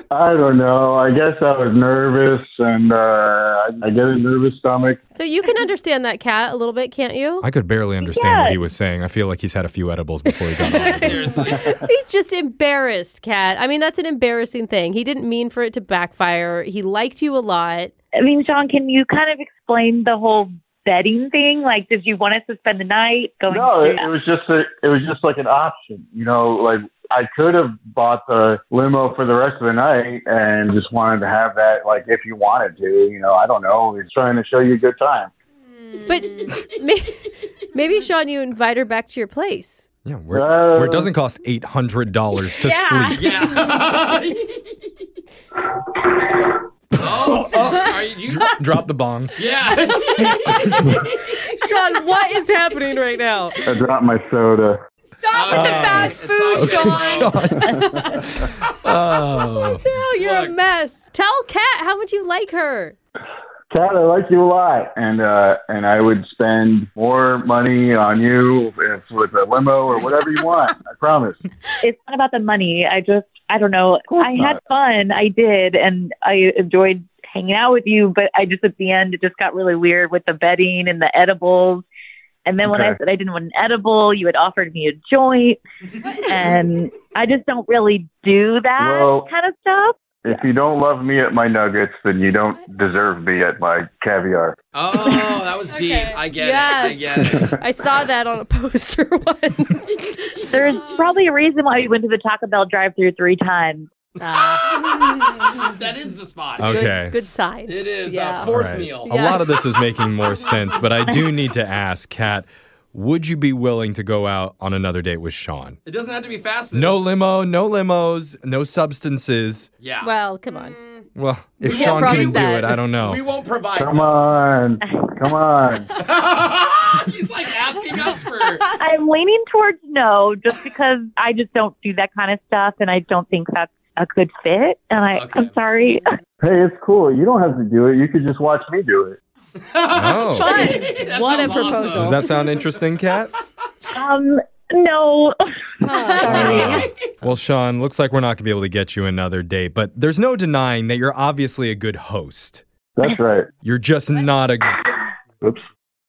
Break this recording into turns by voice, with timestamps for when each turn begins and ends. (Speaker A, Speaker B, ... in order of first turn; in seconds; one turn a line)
Speaker A: 0.1-5.0
Speaker B: 5.2-7.5
Speaker C: 7.4-11.3
Speaker D: 8.1-8.6
Speaker B: 10.3-17.9
Speaker E: 10.7-11.8
Speaker D: 18.2-24.1
Speaker A: 23.5-35.3
Speaker F: 35.8-36.5
Speaker B: 36.1-39.9
Speaker C: 40.0-43.2
Speaker A: 40.3-41.1
Speaker E: 43.1-44.6
Speaker A: 46.1-46.5
Speaker E: 47.0-48.5
Speaker C: 47.2-49.4
Speaker E: 49.4-51.2
Speaker B: 51.5-53.7
Speaker A: 53.6-54.8
Speaker F: 55.2-57.3
Speaker E: 55.3-57.5
Speaker C: 55.5-57.6
Speaker A: 57.5-58.4
Speaker B: 57.6-58.1
Speaker C: 58.4-59.8
Speaker B: 59.7-63.0
Speaker E: 60.2-60.6
Speaker A: 63.7-71.4
Speaker D: 71.8-81.8
Speaker A: 74.2-74.6
Speaker D: 82.5-85.6
Speaker A: 82.7-83.0
Speaker D: 86.3-90.0
Speaker A: 88.8-89.3
Speaker A: 90.2-94.6
Speaker E: 94.7-97.6
Speaker F: 95.7-96.2
Speaker B: 96.3-100.5
Speaker D: 100.5-103.9
Speaker B: 104.2-105.0
Speaker E: 104.7-107.0
Speaker C: 106.6-107.2
Speaker B: 106.6-108.5
Speaker E: 107.7-109.2
Speaker C: 108.4-115.8
Speaker B: 109.0-109.6
Speaker E: 115.9-117.0
Speaker C: 116.7-119.7
Speaker E: 119.8-120.1
Speaker B: 120.0-120.8
Speaker F: 120.5-121.0
Speaker C: 121.2-123.2
Speaker E: 121.6-124.4
Speaker B: 121.6-122.7
Speaker A: 123.8-125.9
Speaker E: 126.0-128.7
Speaker D: 128.7-136.0
Speaker E: 135.1-135.5
Speaker A: 136.4-139.2
Speaker E: 139.7-142.8
Speaker C: 139.9-140.8
Speaker F: 140.4-141.0
Speaker B: 140.9-142.3
Speaker C: 141.9-143.3
Speaker D: 143.9-145.4
Speaker B: 145.8-146.9
Speaker D: 145.9-146.9
Speaker A: 146.2-146.8
Speaker C: 146.3-152.7
Speaker E: 146.6-146.9
Speaker A: 153.0-153.5
Speaker C: 153.6-154.8